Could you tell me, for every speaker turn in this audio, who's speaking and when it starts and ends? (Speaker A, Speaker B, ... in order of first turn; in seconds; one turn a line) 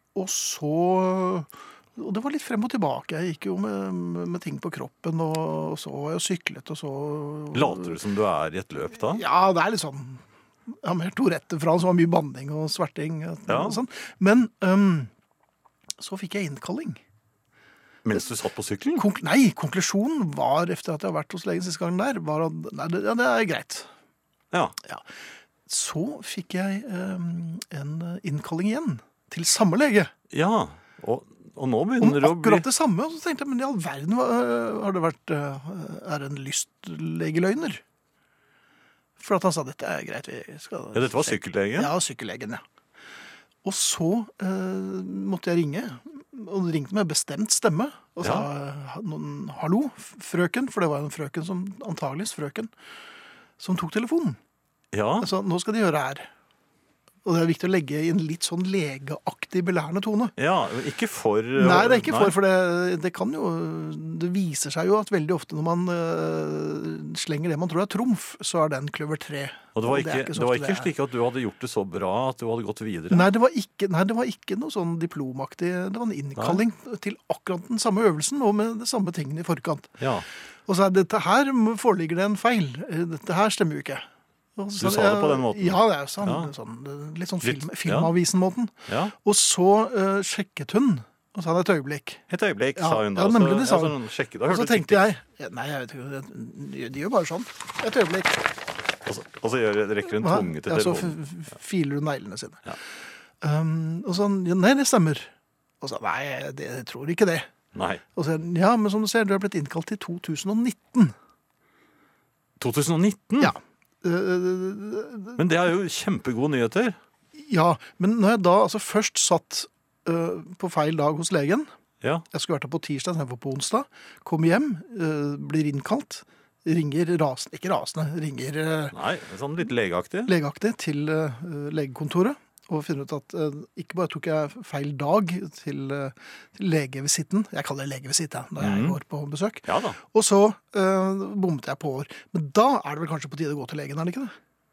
Speaker A: 0.1-8.0
Speaker B: 7.5-9.2
Speaker A: 9.0-15.1
Speaker B: 13.5-13.8
Speaker A: 16.0-17.0
Speaker B: 18.0-19.1
Speaker A: 18.9-23.9
Speaker A: 25.7-30.1
Speaker B: 30.3-32.6
Speaker A: 32.0-37.8
Speaker A: 39.2-42.6
Speaker B: 40.9-41.9
Speaker A: 43.6-52.7
Speaker B: 48.2-48.5
Speaker A: 53.6-54.4
Speaker B: 54.9-55.3
Speaker A: 55.2-56.3
Speaker A: 57.2-60.3
Speaker B: 60.4-62.4
Speaker A: 61.5-70.9
Speaker B: 69.7-73.3
Speaker A: 73.1-80.0
Speaker B: 80.0-80.2
Speaker A: 80.7-84.0
Speaker A: 84.6-92.2
Speaker B: 84.8-86.5
Speaker B: 87.4-88.1
Speaker B: 88.9-89.1
Speaker B: 92.3-95.0
Speaker A: 92.8-98.5
Speaker B: 99.0-101.2
Speaker A: 100.1-102.7
Speaker A: 103.4-107.5
Speaker B: 107.7-108.0
Speaker A: 108.1-111.1
Speaker B: 112.6-113.5
Speaker A: 113.4-115.4
Speaker B: 115.4-117.0
Speaker A: 117.3-121.7
Speaker A: 122.3-128.9
Speaker B: 128.9-130.3
Speaker A: 130.2-144.3
Speaker B: 138.6-139.0
Speaker B: 139.6-140.0